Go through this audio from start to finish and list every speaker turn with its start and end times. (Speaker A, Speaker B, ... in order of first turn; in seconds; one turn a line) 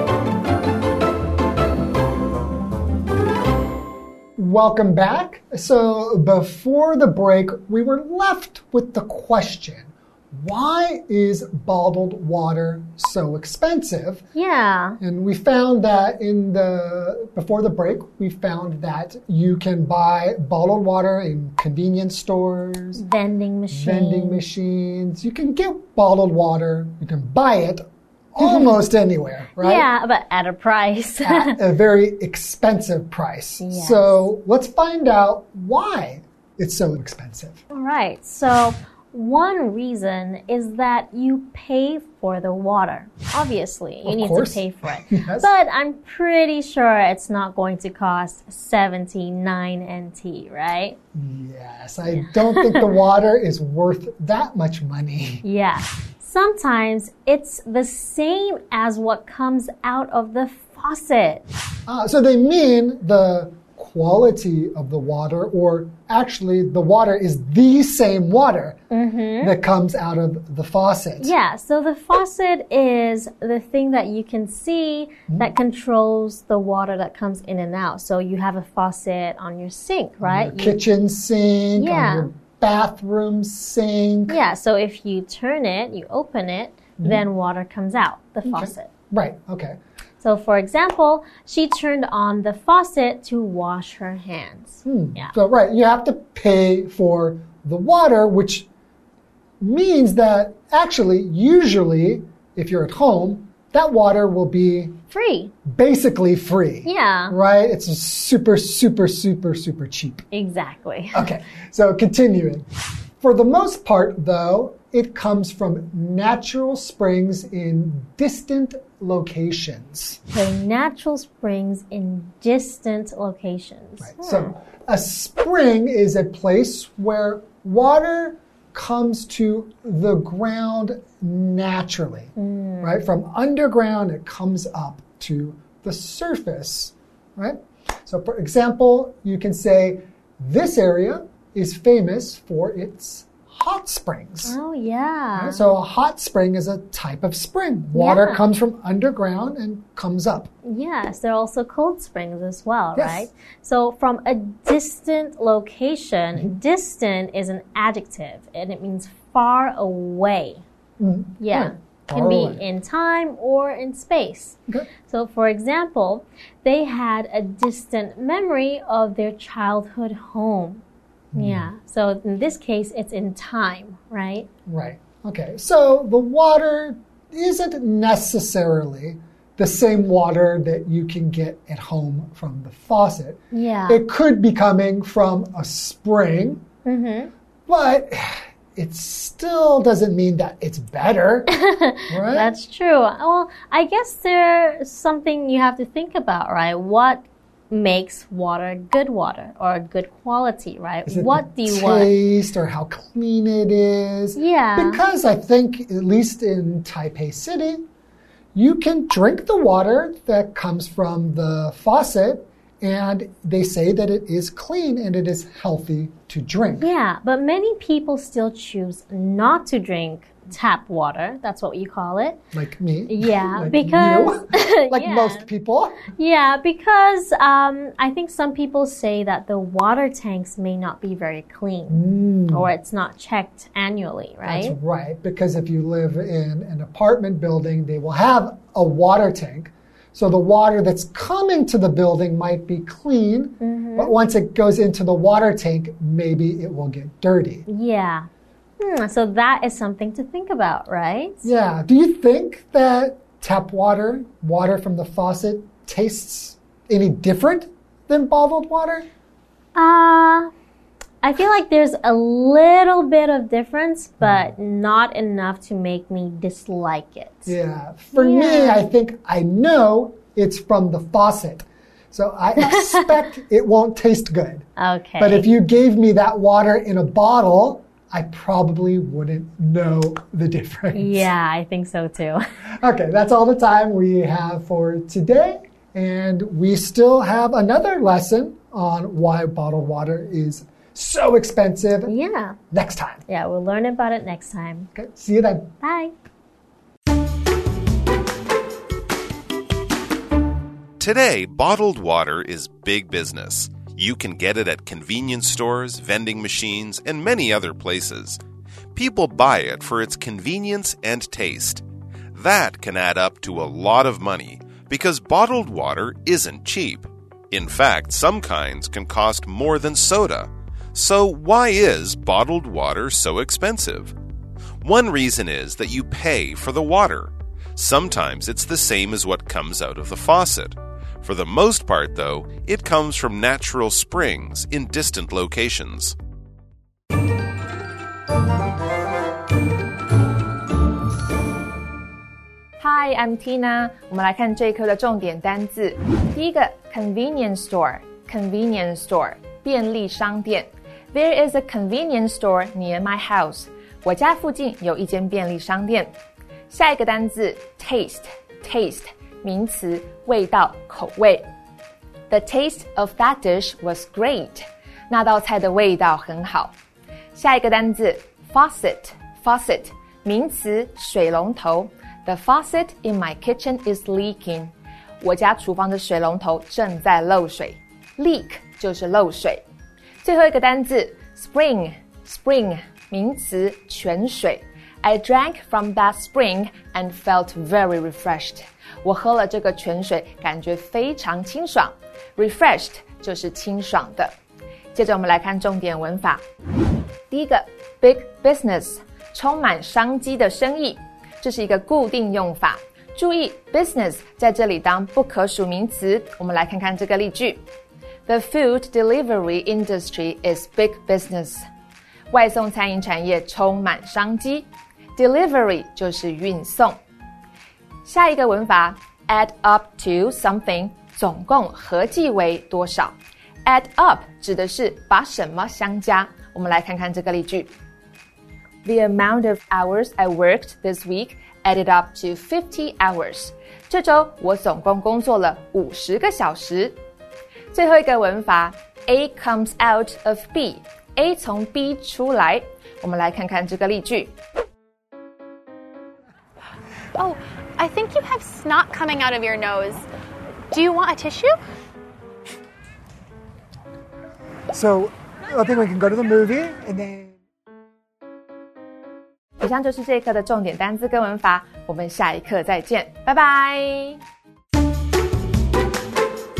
Speaker A: 4.4-14.2
Speaker B: 14.3-15.0
Speaker A: 15.0-23.0
Speaker B: 22.9-24.4
Speaker A: 23.7-29.9
Speaker B: 28.4-28.7
Speaker B: 29.6-31.6
Speaker A: 31.2-37.6
Speaker B: 33.6-34.2
Speaker B: 37.7-51.0
Speaker A: 44.0-45.5
Speaker A: 51.1-55.4
Speaker B: 52.1-52.9
Speaker B: 55.4-61.4
Speaker A: 61.9-68.8
Speaker B: 68.9-69.5
Speaker A: 69.4-71.3
Speaker B: 71.2-80.8
Speaker A: 80.2-84.4
Speaker B: 81.8-82.3
Speaker B: 84.3-88.9
Speaker A: 88.4-89.8
Speaker B: 90.2-95.3
Speaker A: 94.8-98.7
Speaker A: 99.6-105.0
Speaker B: 105.1-105.5
Speaker A: 105.6-110.2
Speaker B: 106.8-107.3
Speaker B: 110.3-111.3
Speaker A: 111.1-112.7
Speaker A: 113.2-120.2
Speaker B: 120.3-124.5
Speaker A: 124.0-144.6
Speaker B: 132.3-133.0
Speaker B: 144.4-145.7
Speaker A: 145.4-150.5
Speaker B: 147.9-148.4
Speaker B: 150.6-160.6
Speaker A: 152.9-153.3
Speaker A: 161.0-162.6
Speaker B: 161.4-170.8
Speaker A: 171.3-171.7
Speaker B: 171.3-174.5
Speaker A: 174.7-186.6
Speaker B: 183.5-184.0
Speaker B: 186.8-187.3
Speaker A: 187.7-192.5
Speaker B: 191.5-202.1
Speaker A: 201.1-207.8
Speaker B: 204.3-205.0
Speaker A: 208.5-216.9
Speaker B: 216.8-222.4
Speaker A: 222.5-226.0
Speaker B: 223.1-225.4
Speaker B: 226.1-234.7
Speaker A: 231.9-232.7
Speaker A: 234.4-247.7
Speaker B: 243.6-244.1
Speaker B: 247.7-248.3
Speaker B: 248.8-251.4
Speaker A: 251.4-259.1
Speaker B: 259.7-260.5
Speaker B: 261.2-267.5
Speaker A: 264.2-264.5
Speaker A: 267.4-274.6
Speaker B: 268.1-268.8
Speaker B: 272.6-273.1
Speaker B: 274.8-275.5
Speaker A: 275.2-281.3
Speaker B: 280.9-282.4
Speaker A: 282.8-292.1
Speaker B: 292.1-292.6
Speaker A: 292.7-293.2
Speaker B: 293.3-294.9
Speaker A: 294.9-295.7
Speaker B: 295.8-296.1
Speaker C: 301.0-308.4
Speaker C: 308.9-311.8
Speaker C: 312.3-324.1
Speaker C: 324.8-336.1
Speaker D: 342.8-356.1
Speaker D: 356.7-361.5
Speaker D: 362.3-366.8
Speaker D: 367.3-379.6
Speaker D: 380.2-394.3
Speaker D: 394.9-396.4
Speaker D: 397.3-407.6
Speaker D: 408.3-411.6
Speaker D: 412.3-417.0
Speaker D: 418.1-427.7
Speaker D: 428.8-437.0
Speaker D: 437.7-444.3
Speaker E: 447.2-450.1
Speaker E: 450.7-451.6
Speaker A: 454.7-457.4
Speaker D: 459.6-464.2